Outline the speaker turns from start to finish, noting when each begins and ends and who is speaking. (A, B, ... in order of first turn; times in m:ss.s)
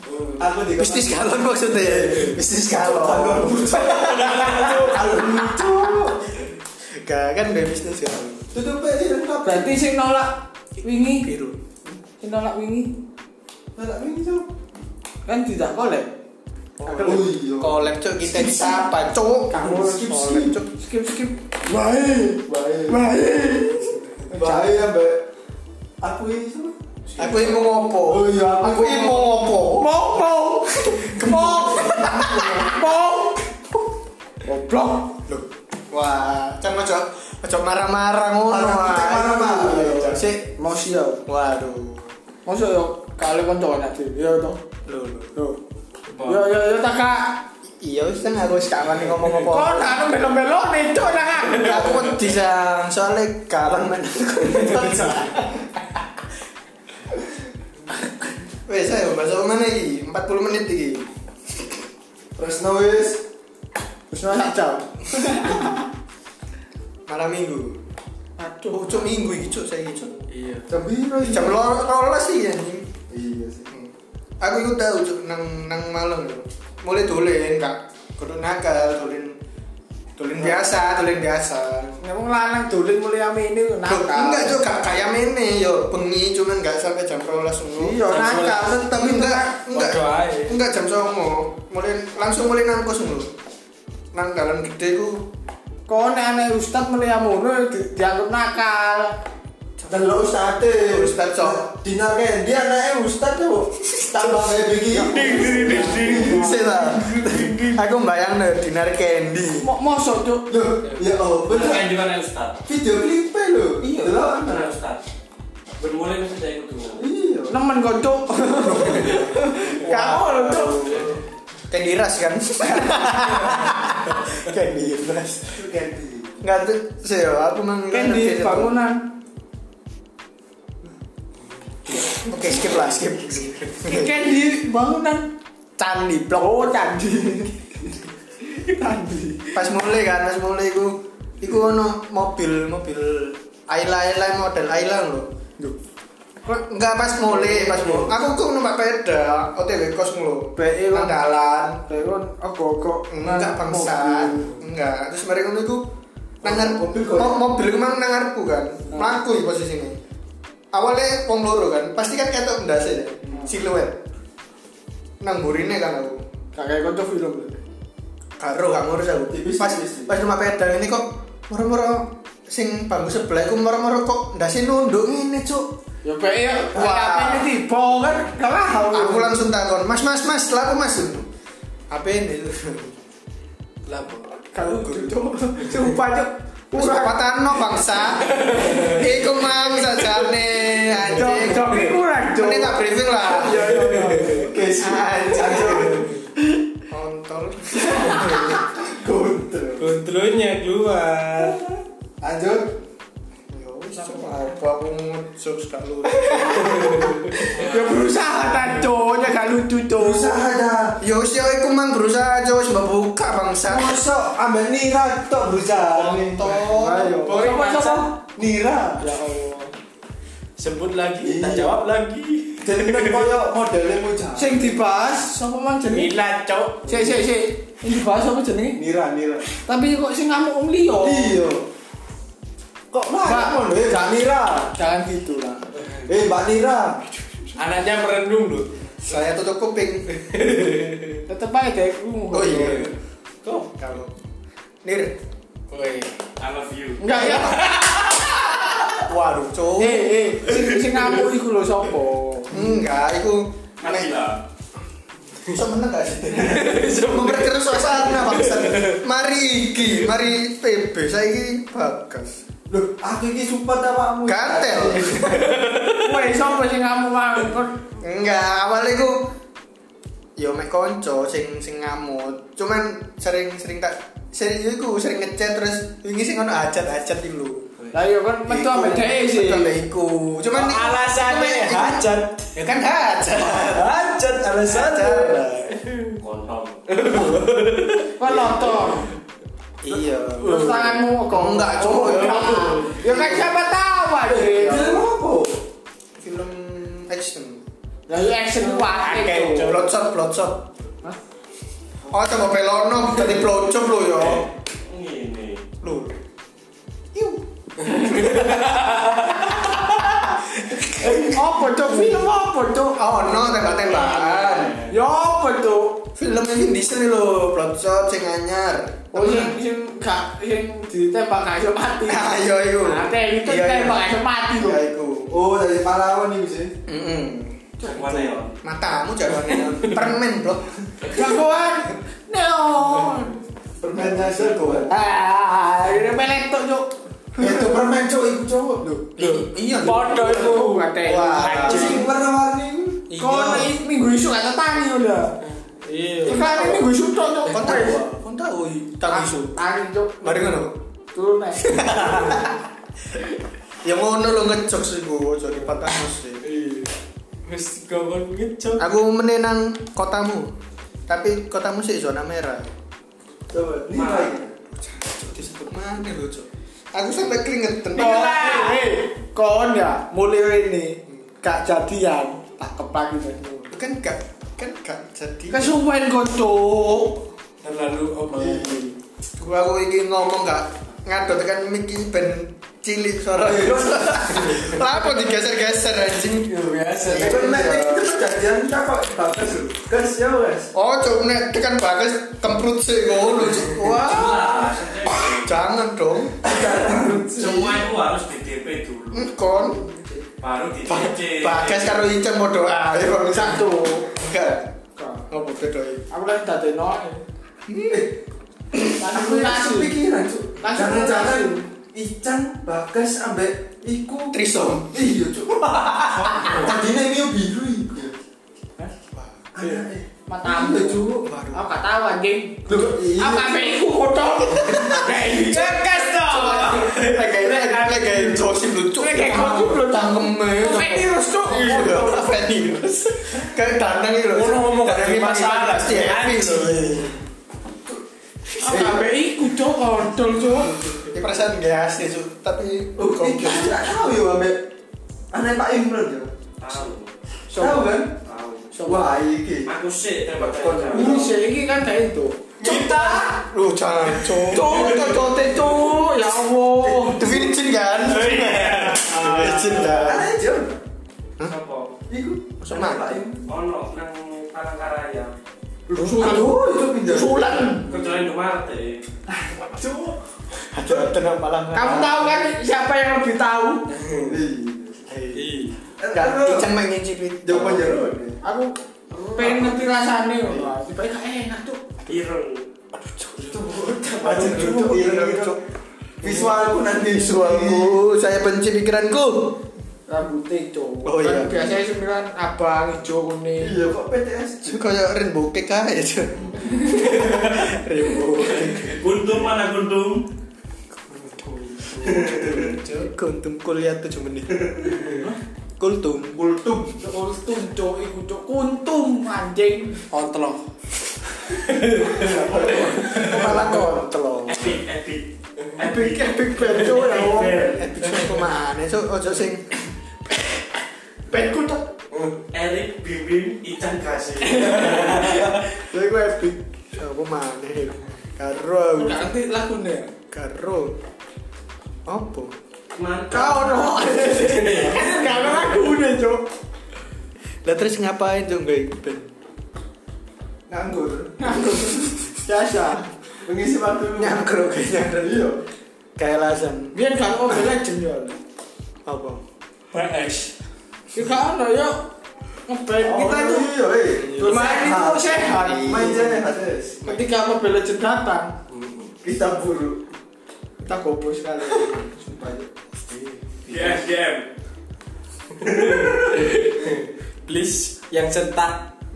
0:00.4-0:01.2 A
0:00.7-0:05.2 B
0:01.8-0:06.3 A
0:06.9-0:08.5 B
0:08.5-0:09.8 A
0:09.4-0:11.3 C
0:11.1-0:11.6 B
0:12.2-0:13.0 C
0:13.7-0:14.5 A
0:15.2-0:16.1 C
0:16.8-0:20.7 B
0:16.9-0:18.7 A
0:16.9-0:17.2 C
0:19.5-0:24.8 C
0:19.8-0:20.4 A
0:22.5-0:23.1 A
0:24.3-0:25.2 A
0:26.0-0:26.8 A
0:27.2-0:29.9 B
0:28.0-0:29.3 A
0:29.7-0:33.6 C
0:30.7-0:32.8 B
0:34.4-0:35.2 C
0:35.3-0:40.5 B
0:38.5-0:40.2 A
0:40.6-0:41.2 C
0:41.2-0:42.1 B
0:42.4-0:44.6 C
0:44.8-0:45.3 B
0:45.3-0:45.6 C
0:46.1-0:46.5 D
0:46.2-0:47.5 C
0:47.6-0:50.0 B
0:49.4-0:52.1 C
0:51.5-0:55.7 B
0:58.6-1:01.1 B
1:02.4-1:03.2 A
1:04.1-1:05.9 C
1:07.1-1:07.8 B
1:08.4-1:09.1 C
1:08.7-1:10.2 B
1:10.3-1:10.7 D
1:10.7-1:11.5 A
1:11.2-1:12.9 B
1:13.1-1:13.7 A
1:14.4-1:19.4 B
1:20.2-1:22.0 B
1:22.0-1:24.6 C
1:23.8-1:33.3 B
1:27.8-1:29.6 C
1:28.1-1:28.7 D
1:29.6-1:30.6 D
1:34.1-1:35.3 B
1:35.9-1:39.2 C
1:39.8-1:40.1 B
1:39.9-1:46.6 A
1:40.8-1:41.7 B
1:44.9-1:47.7 C
1:45.0-1:46.3 D
1:45.4-1:49.7 B
1:47.2-1:47.7 D
1:49.6-1:50.5 C
1:50.5-1:51.9 A
1:50.8-1:51.1 D
1:51.4-1:52.6 E
1:52.6-1:54.8 A
1:53.8-1:54.2 B
1:54.4-1:55.0 E
1:55.8-1:57.0 E
1:57.0-1:57.6 A
1:57.5-2:01.1 C
1:58.5-2:00.9 B
1:59.9-2:01.0 A
2:00.8-2:01.2 D
2:01.7-2:05.6 B
2:05.5-2:06.4 A
2:06.4-2:08.7 B
2:07.9-2:09.1 C
2:12.2-2:14.2 B
2:13.8-2:15.3 C
2:15.8-2:16.8 B
2:16.3-2:17.5 C
2:18.5-2:19.6 C
2:19.5-2:25.3 B
2:26.4-2:31.8 B
2:27.3-2:28.1 C
2:30.5-2:31.2 C
2:31.8-2:34.6 C
2:33.1-2:35.9 B
2:36.4-2:40.0 B
2:36.4-2:37.4 A
2:40.7-2:44.0 B
2:45.2-2:46.2 B
2:46.5-2:47.6 C
2:48.4-2:55.7 B
2:49.3-2:50.1 A
2:56.0-2:59.4 C
2:56.7-2:57.5 B
2:58.9-3:01.3 B
3:01.9-3:02.9 B
3:03.9-3:04.2 D
3:04.5-3:07.2 C
3:04.6-3:05.1 B
3:06.7-3:13.6 B
3:08.2-3:09.0 D
3:11.0-3:14.5 C
3:13.5-3:14.5 D
3:14.3-3:16.1 A
3:14.8-3:16.1 B
3:16.9-3:18.6 B
3:17.9-3:20.0 A
3:19.8-3:21.6 D
3:21.4-3:22.8 A
3:23.5-3:27.3 B
3:24.0-3:24.5 C
3:26.2-3:27.7 D
3:27.3-3:30.4 C
3:30.0-3:31.0 A
3:31.0-3:34.0 B
3:33.7-3:39.1 A
3:35.9-3:37.3 B
3:36.8-3:38.1 C
3:37.2-3:38.2 D
3:39.0-3:39.7 C
3:40.6-3:43.3 D
3:41.2-3:41.8 A
3:42.6-3:44.8 A
3:44.3-3:46.2 C
3:45.9-3:47.2 D
3:46.8-3:48.8 C
3:48.7-3:49.5 A
3:49.5-3:51.4 C
3:51.0-3:51.7 A
3:52.9-3:54.7 A
3:53.2-3:55.6 C
3:55.8-3:56.1 D
3:56.0-3:57.0 A
3:57.5-3:58.9 D
3:59.0-4:00.2 B
4:00.1-4:01.2 D
4:01.3-4:02.9 C
4:02.3-4:02.9 B
4:03.6-4:04.2 B
4:04.8-4:05.2 B
4:05.7-4:06.1 D
4:06.4-4:07.3 E
4:07.0-4:07.8 C
4:07.3-4:09.0 D
4:09.0-4:10.2 B
4:09.8-4:12.6 C
4:10.5-4:11.3 D
4:12.5-4:14.1 B
4:13.8-4:14.4 E
4:15.4-4:22.4 B
4:16.3-4:19.0 D
4:22.7-4:25.4 A
4:24.2-4:25.7 B
4:25.3-4:26.2 D
4:26.0-4:27.8 C
4:28.0-4:29.3 B
4:30.4-4:37.7 B
4:37.9-4:39.8 C
4:38.4-4:44.0 B
4:40.5-4:42.6 D
4:43.5-4:46.2 D
4:44.6-4:45.8 B
4:46.2-4:46.8 E
4:46.9-4:48.2 D
4:48.2-4:49.1 C
4:48.3-4:48.8 B
4:49.8-4:53.6 B
4:50.4-4:55.0 C
4:50.4-4:51.0 D
4:51.9-4:52.9 D
4:54.3-4:55.6 A
4:56.2-4:57.6 B
4:58.1-4:59.8 C
4:58.6-4:59.9 D
4:59.0-5:00.7 B
5:02.1-5:04.5 B
5:04.2-5:05.7 E
5:05.8-5:06.2 B
5:07.1-5:08.7 B
5:07.8-5:11.5 D
5:09.7-5:10.1 B
5:10.7-5:11.2 B
5:11.3-5:13.5 C
5:11.8-5:14.8 B
5:13.9-5:14.9 E
5:14.9-5:16.0 C
5:16.2-5:19.6 B
5:19.1-5:24.8 C
5:22.1-5:25.3 B
5:25.3-5:26.8 A
5:26.8-5:27.6 B
5:27.8-5:28.4 C
5:27.8-5:28.6 E
5:28.6-5:31.3 B
5:31.1-5:33.4 C
5:33.8-5:34.9 A
5:33.9-5:34.9 B
5:34.9-5:37.6 C
5:37.4-5:38.8 A
5:38.8-5:42.0 C
5:39.2-5:41.6 D
5:39.2-5:42.0 B
5:41.5-5:43.0 A
5:43.1-5:43.7 B
5:43.2-5:45.3 C
5:45.5-5:46.3 D
5:45.9-5:48.0 C
5:46.3-5:46.9 B
5:47.4-5:49.6 B
5:49.1-5:50.6 C
5:50.2-5:50.8 B
5:51.1-5:52.2 C
5:51.6-5:52.6 B
5:53.8-5:56.4 B
5:55.5-5:55.8 D
5:56.4-5:56.9 D
5:57.4-5:58.8 D
5:58.8-6:00.5 B
6:01.1-6:02.7 B
6:03.5-6:04.5 A
6:03.9-6:04.5 E
6:04.8-6:08.8 B
6:07.9-6:13.7 C
6:13.7-6:15.8 B
6:15.5-6:17.2 C
6:17.6-6:18.9 D
6:18.3-6:18.8 A
6:19.4-6:26.5 B
6:23.4-6:24.4 A
6:24.4-6:24.8 D
6:26.4-6:27.6 D
6:27.0-6:30.7 A
6:27.1-6:28.1 B
6:30.7-6:36.7 B
6:33.8-6:35.6 E
6:36.4-6:37.8 A
6:37.3-6:39.3 E
6:39.1-6:39.9 B
6:40.4-6:42.2 E
6:40.9-6:44.7 B
6:43.3-6:44.1 C
6:45.0-6:45.2 C
6:45.3-6:46.0 B
6:46.1-6:47.2 C
6:47.7-6:48.1 B
6:47.9-6:48.2 A
6:48.8-6:58.1 A
6:48.9-6:50.0 C
6:50.6-6:51.6 C
6:54.3-6:54.9 B
6:55.6-6:56.7 B
6:56.3-6:56.6 E
6:59.1-6:59.4 B
6:59.5-7:01.1 A
6:59.6-7:12.4 C
7:01.2-7:01.7 B
7:02.7-7:03.7 A
7:04.5-7:17.1 B
7:05.4-7:07.2 D
7:14.3-7:17.2 D
7:18.6-7:20.9 C
7:18.6-7:19.0 A
7:21.0-7:23.9 B
7:23.0-7:24.7 A
7:25.3-7:26.3 A
7:26.6-7:27.1 E
7:27.5-7:28.0 C
7:27.5-7:28.2 A
7:28.2-7:28.7 E
7:28.7-7:29.1 C
7:28.8-7:29.7 A
7:29.6-7:31.3 E
7:30.3-7:31.3 A
7:30.9-7:33.3 C
7:32.6-7:33.3 A
7:32.6-7:33.2 D
7:33.4-7:36.2 B
7:34.5-7:37.5 C
7:34.6-7:35.1 A
7:36.8-7:40.3 B
7:38.2-7:38.9 E
7:38.4-7:40.2 D
7:39.1-7:40.0 C
7:39.4-7:40.8 A
7:41.4-7:41.9 E
7:42.1-7:43.5 A
7:42.6-7:43.2 B
7:43.4-7:45.3 E
7:45.9-7:47.8 A
7:45.9-7:48.0 C
7:47.9-7:49.0 E
7:50.7-7:52.4 B
7:50.9-7:51.1 A
7:51.7-7:53.9 C
7:53.9-7:54.4 D
7:54.2-7:55.1 A
7:55.1-7:55.6 B
7:55.3-7:55.8 D
7:56.0-7:56.7 A
7:56.1-7:58.0 B
7:57.4-7:58.4 A
7:58.4-7:58.7 C
7:59.3-8:01.8 C
8:02.1-8:02.6 E
8:03.2-8:03.6 B
8:03.4-8:04.9 C
8:04.2-8:05.6 B
8:04.2-8:05.6 A
8:06.2-8:08.0 A
8:06.2-8:09.6 B
8:10.1-8:13.8 C
8:11.0-8:11.7 B
8:13.6-8:14.8 A
8:14.7-8:19.1 B
8:18.8-8:20.2 E
8:21.2-8:22.4 D
8:22.0-8:22.7 E
8:22.0-8:24.9 B
8:24.8-8:25.3 D
8:25.8-8:26.8 B
8:26.5-8:26.9 A
8:27.0-8:30.6 C
8:30.1-8:30.5 D
8:31.7-8:32.2 D
8:32.2-8:33.4 A
8:32.2-8:34.8 B
8:33.0-8:33.6 D
8:34.5-8:37.7 E
8:35.8-8:37.9 C
8:37.1-8:39.8 B
8:41.3-8:41.8 C
8:42.1-8:42.4 D
8:42.5-8:45.4 E
8:44.4-8:46.6 C
8:44.5-8:45.5 D
8:47.0-8:49.3 B
8:48.9-8:50.1 C
8:50.3-8:51.0 B
8:52.0-8:52.5 B
8:52.9-8:54.6 E
8:53.3-8:56.4 C
8:54.2-8:55.2 B
8:54.4-8:55.0 D
8:57.6-8:59.3 B
9:00.7-9:01.8 A
9:01.4-9:03.1 C
9:03.4-9:04.4 A
9:04.2-9:05.4 B
9:05.2-9:05.6 A
9:06.2-9:07.7 B
9:06.9-9:08.4 C
9:09.0-9:09.4 B
9:09.9-9:10.5 D
9:11.1-9:12.1 C
9:12.7-9:13.7 C
9:13.0-9:17.0 A
9:14.2-9:16.4 B
9:14.4-9:16.3 C
9:17.0-9:17.2 B
9:17.0-9:18.6 C
9:18.7-9:19.1 D
9:19.2-9:20.0 A
9:20.8-9:22.3 C
9:22.2-9:22.7 A
9:23.1-9:24.5 D
9:25.5-9:28.9 D